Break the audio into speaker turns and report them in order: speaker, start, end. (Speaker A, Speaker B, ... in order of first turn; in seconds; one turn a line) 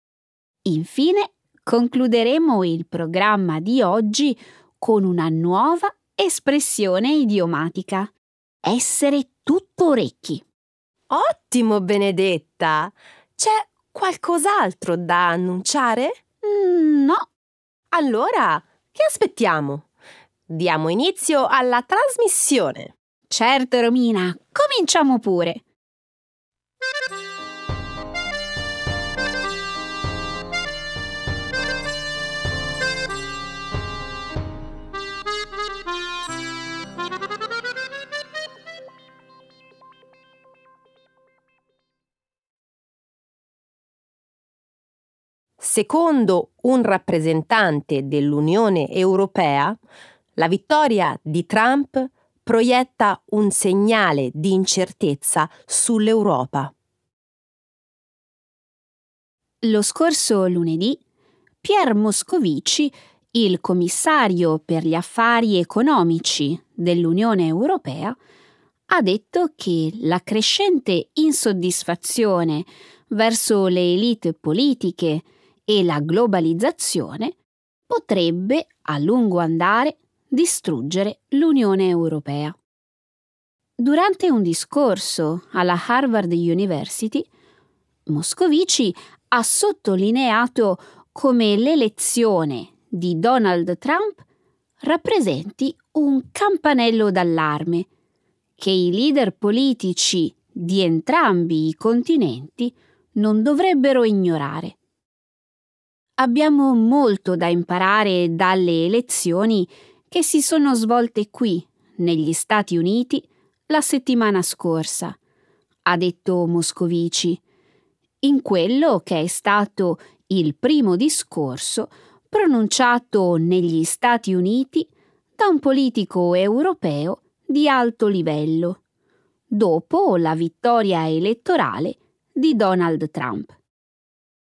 Speaker A: 0.7-8.1
Speaker A: 8.7-10.4
Speaker B: 11.1-16.2
Speaker A: 16.4-17.3
Speaker B: 17.9-19.9
Speaker B: 20.5-22.9
Speaker A: 23.3-25.6
Speaker B: 45.6-49.8
Speaker B: 50.4-56.7
Speaker A: 59.6-61.0
Speaker A: 61.6-68.2
Speaker A: 68.9-77.3
Speaker A: 77.9-82.5
Speaker A: 83.8-87.3
Speaker A: 88.1-94.2
Speaker A: 94.8-97.9
Speaker A: 98.6-104.8
Speaker A: 106.2-115.2
Speaker A: 115.9-117.4
Speaker A: 118.2-128.8
Speaker A: 129.5-133.5